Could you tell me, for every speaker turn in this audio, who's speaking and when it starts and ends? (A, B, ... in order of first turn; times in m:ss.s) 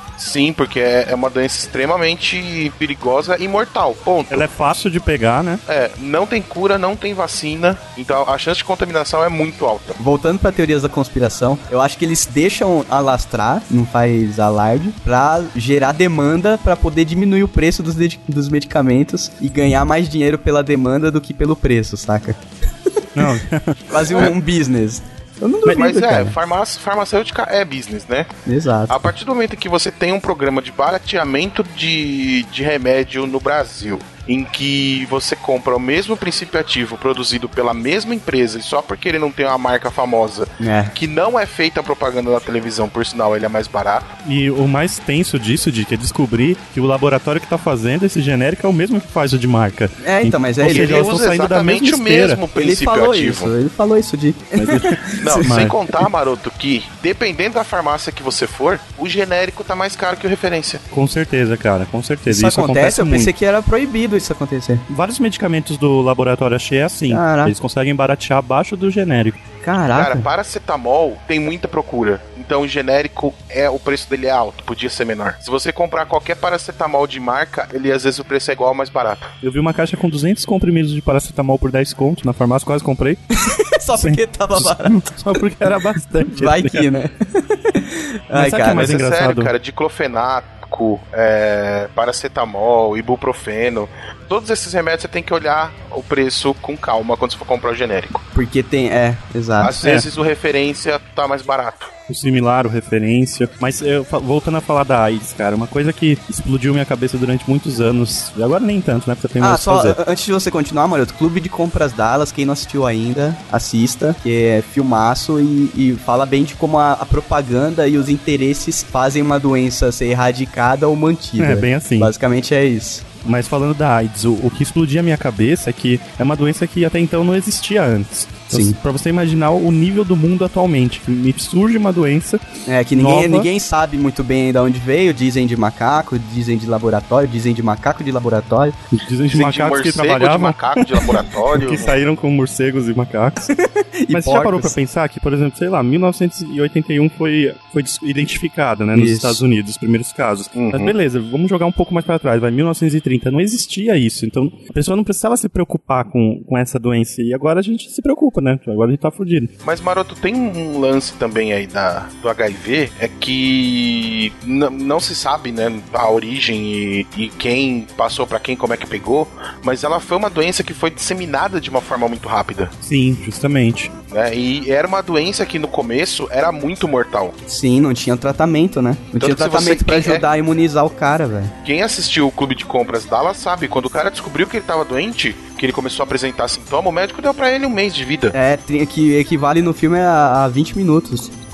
0:00.2-0:04.5 A
0:04.3-0:05.6 B
0:05.7-0:10.0 A
0:10.0-0:23.3 C
0:23.2-0:23.9 B
0:23.9-0:26.4 C
0:25.6-0:28.3 A
0:28.5-0:29.0 C
0:28.9-0:44.1 A
0:40.6-0:40.9 C
0:44.2-0:52.4 B
0:50.0-0:51.2 C
0:50.7-0:53.5 A
0:52.6-0:55.6 C
0:54.6-0:55.8 B
0:55.2-1:00.8 A
1:00.9-1:03.3 B
1:02.3-1:04.8 C
1:04.9-1:09.4 B
1:07.1-1:07.6 C
1:09.6-1:10.3 C
1:09.9-1:19.3 A
1:19.4-1:23.2 B
1:23.4-1:25.2 C
1:24.0-1:26.9 B
1:26.2-1:28.9 C
1:28.3-1:29.5 B
1:28.7-1:38.2 A
1:38.3-1:39.9 C
1:39.6-1:41.9 A
1:42.1-1:50.0 B
1:49.4-2:03.0 C
2:01.4-2:02.1 B
2:03.2-2:12.4 B
2:08.5-2:08.8 C
2:12.7-2:18.8 C
2:13.0-2:13.5 B
2:18.9-2:20.6 B
2:19.3-2:22.0 A
2:21.5-2:23.5 B
2:23.5-2:24.8 C
2:24.1-2:39.5 B
2:28.9-2:29.4 C
2:30.6-2:30.9 A
2:39.6-2:52.7 A
2:52.8-2:53.9 B
2:54.1-2:57.4 A
2:57.5-3:01.5 C
2:59.2-3:00.2 A
3:01.6-3:08.3 A
3:08.3-3:11.3 C